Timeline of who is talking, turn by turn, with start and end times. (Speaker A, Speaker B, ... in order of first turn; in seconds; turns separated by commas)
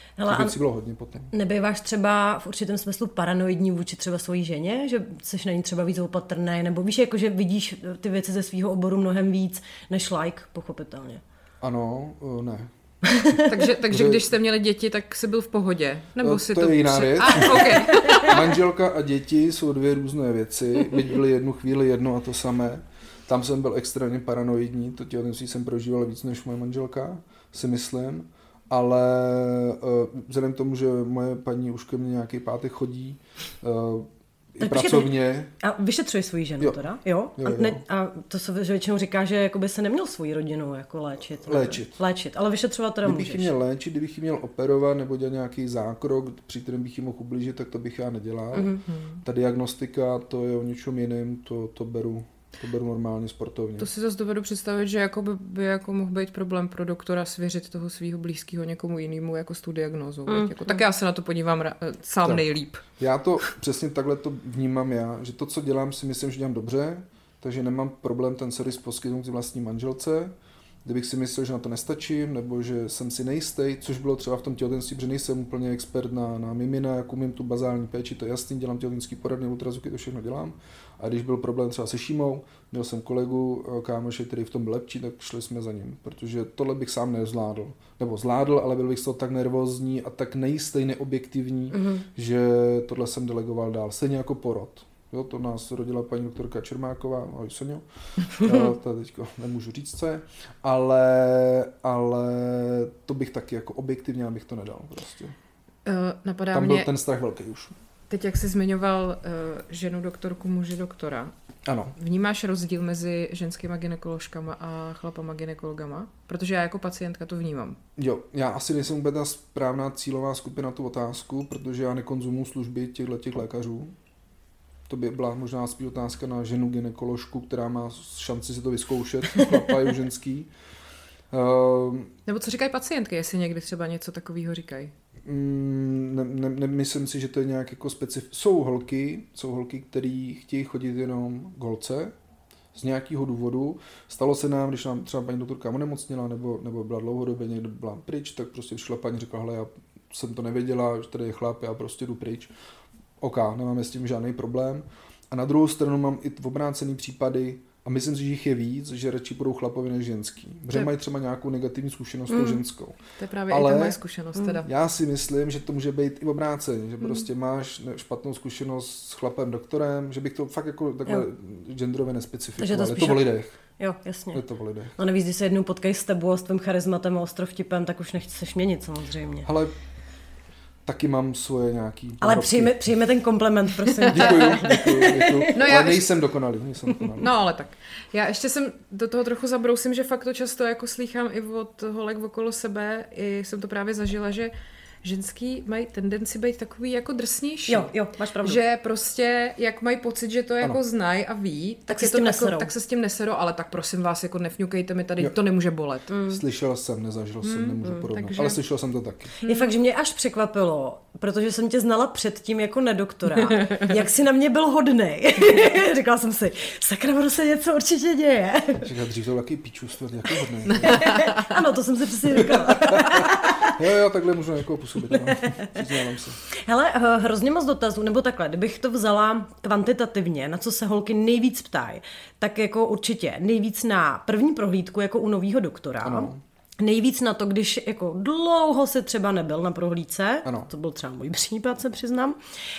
Speaker A: 0.2-0.6, Speaker B: 0.2-1.3, Speaker A: 1.3-11.2, Speaker B: 11.6-12.7, Speaker A: 13.0-13.6, Speaker C: 13.4-18.6, Speaker B: 13.9-14.3, Speaker B: 16.2-35.5, Speaker A: 34.6-43.5, Speaker B: 37.4-37.8, Speaker B: 41.4-41.9, Speaker B: 43.0-53.9, Speaker A: 48.5-48.8, Speaker C: 48.9-49.2, Speaker C: 53.8-62.8, Speaker A: 60.3-60.8, Speaker B: 63.0-70.3, Speaker B: 70.8-105.3, Speaker A: 91.7-92.0, Speaker C: 105.8-106.9, Speaker B: 106.5-107.7, Speaker C: 108.1-111.3, Speaker B: 111.7-111.9, Speaker C: 112.0-117.8, Speaker B: 118.0-123.9, Speaker B: 124.9-130.5, Speaker B: 131.3-132.1, Speaker C: 132.2-134.9, Speaker B: 135.2-142.1, Speaker B: 142.7-152.5, Speaker B: 153.2-163.0, Speaker A: 162.3-162.6, Speaker C: 163.2-164.7, Speaker B: 163.5-164.0, Speaker B: 164.6-173.6, Speaker A: 172.6-174.4, Speaker B: 174.3-174.9, Speaker A: 175.0-179.5, Speaker B: 179.4-179.8, Speaker B: 180.8-182.8, Speaker A: 182.2-185.5, Speaker C: 184.0-184.4, Speaker B: 184.1-187.3, Speaker C: 185.5-186.2, Speaker C: 187.2-194.5, Speaker C: 195.0-206.1, Speaker A: 197.7-198.6, Speaker A: 201.9-202.7, Speaker A: 206.1-206.4, Speaker B: 206.3-209.3, Speaker C: 207.4-208.6, Speaker C: 209.4-209.7, Speaker A: 209.4-218.9, Speaker B: 218.8-221.1, Speaker A: 220.8-223.8, Speaker C: 220.8-221.5, Speaker B: 222.4-226.4, Speaker A: 225.1-225.8, Speaker A: 226.5-242.4, Speaker B: 236.0-236.4, Speaker B: 240.4-240.7